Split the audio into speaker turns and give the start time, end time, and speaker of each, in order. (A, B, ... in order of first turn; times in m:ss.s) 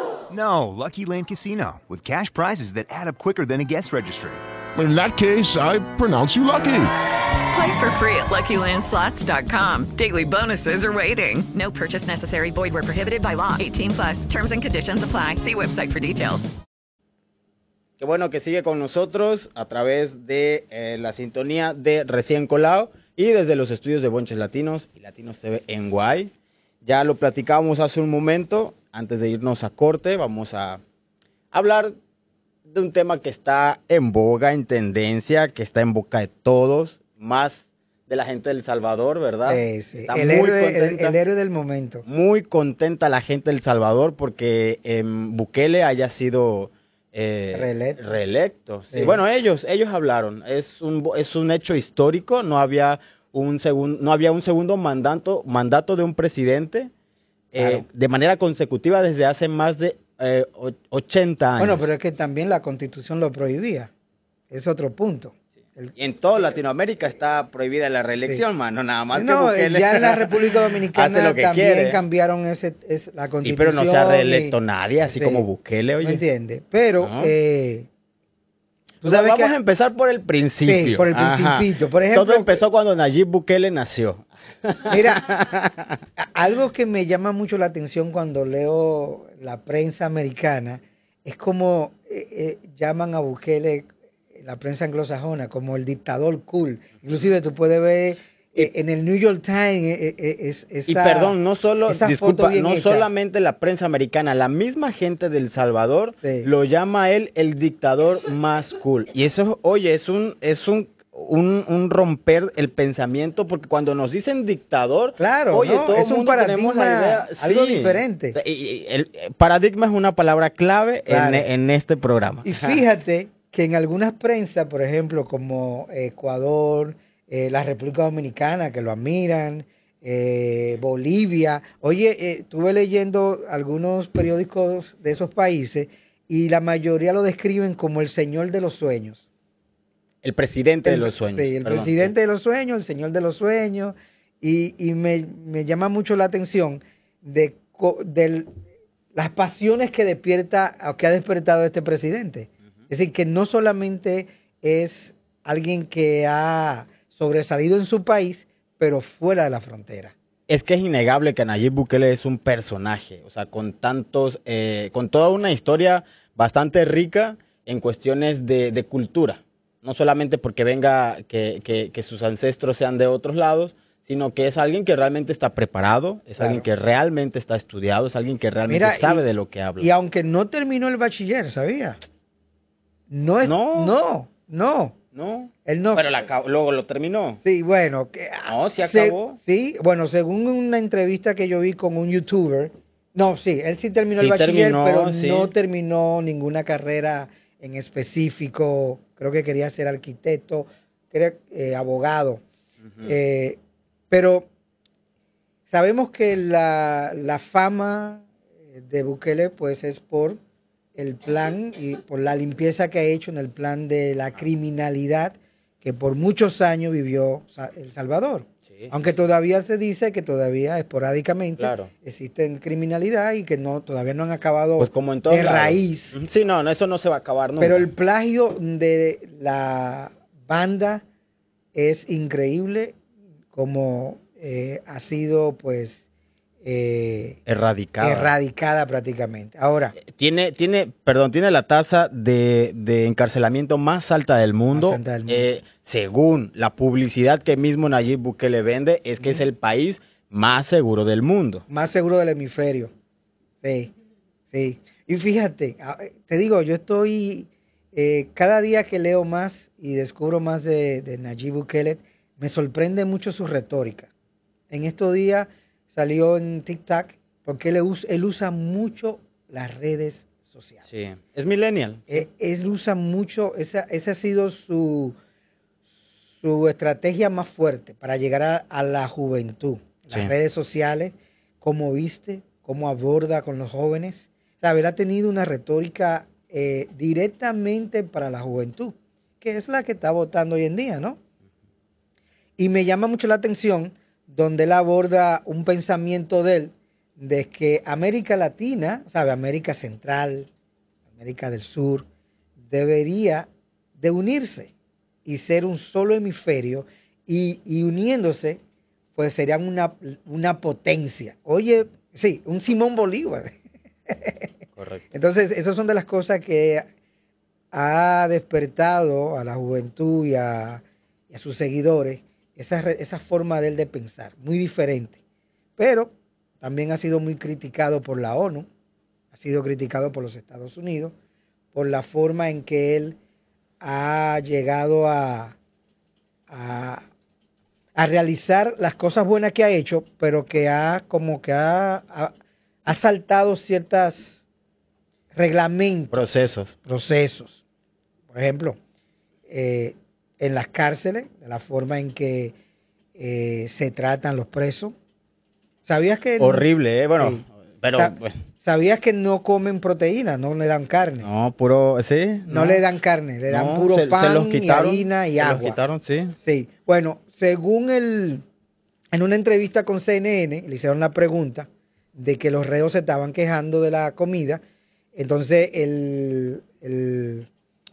0:00.3-0:04.4 A
0:04.8-0:06.9 B
0:07.5-0:16.5 C
0:18.0-0:26.3 D
0:26.8-0:30.8 D
0:31.5-0:32.0 D
0:32.6-0:41.2 D
0:39.5-0:42.0 E
0:42.0-0:56.9 D
0:47.5-0:48.1 E
0:48.9-0:49.2 E
0:57.5-1:01.8 D
0:57.6-0:57.8 E
1:01.6-1:03.9 E
1:04.5-1:05.9 E
1:06.0-1:12.0 D
1:09.1-1:15.4 E
1:13.4-1:16.2 D
1:16.0-1:17.9 E
1:17.0-1:17.3 D
1:19.0-1:26.0 D
1:19.0-1:19.5 E
1:20.6-1:22.6 E
1:24.9-1:25.4 E
1:26.2-1:41.4 E
1:40.9-2:02.8 D
1:41.9-1:43.1 E
1:46.2-1:46.5 E
1:55.2-1:58.4 E
2:01.1-2:01.5 E
2:02.4-2:19.2 E
2:20.2-2:22.1 D
2:20.8-2:28.5 E
2:29.1-2:40.1 E
2:40.5-2:59.9 D
2:56.4-2:56.6 E
2:58.7-2:59.2 E
2:59.8-3:02.0 E
3:03.1-3:05.0 E
3:03.4-3:03.9 D
3:05.1-3:07.4 D
3:05.6-3:06.1 E
3:07.4-3:22.4 E
3:08.4-3:09.4 D
3:14.2-3:15.5 D
3:23.0-3:23.6 E
3:24.1-3:24.5 E
3:25.7-3:30.4 E
3:30.9-3:46.2 E
3:38.7-3:39.1 D
3:41.6-3:41.9 D
3:44.8-3:47.9 D
3:47.6-3:51.0 E
3:51.7-3:53.0 E
3:53.5-3:56.0 E
3:56.6-3:57.4 E
3:57.4-3:58.3 D
3:58.0-4:00.0 E
4:00.0-4:11.6 D
4:04.7-4:05.5 E
4:11.7-4:12.9 E
4:13.6-4:13.9 E
4:14.5-4:24.1 E
4:24.7-4:30.8 E
4:30.9-4:32.2 D
4:32.1-4:35.1 E
4:36.4-4:51.2 E
4:52.6-5:00.5 E
5:01.2-5:02.0 E
5:02.6-5:04.7 E
5:05.2-5:08.6 E
5:09.2-5:13.6 E
5:14.1-5:14.5 E
5:14.8-5:15.1 D
5:15.1-5:16.8 E
5:17.7-5:25.2 E
5:25.8-5:28.7 E
5:29.3-5:31.1 E
5:31.7-5:33.2 E
5:33.8-5:35.6 E
5:36.5-5:37.1 E
5:38.0-5:42.3 E
5:42.8-5:44.4 E
5:45.3-5:46.2 E
5:46.1-5:46.7 D
5:46.8-5:47.6 E
5:48.3-5:48.8 E
5:49.5-5:52.5 E
5:53.2-5:54.9 E
5:55.8-5:57.4 E
5:56.4-5:58.4 D
5:58.0-6:01.3 E
6:01.2-6:02.8 D
6:02.5-6:05.8 E
6:03.5-6:06.4 D
6:06.4-6:08.4 E
6:09.1-6:14.6 E
6:15.1-6:17.5 E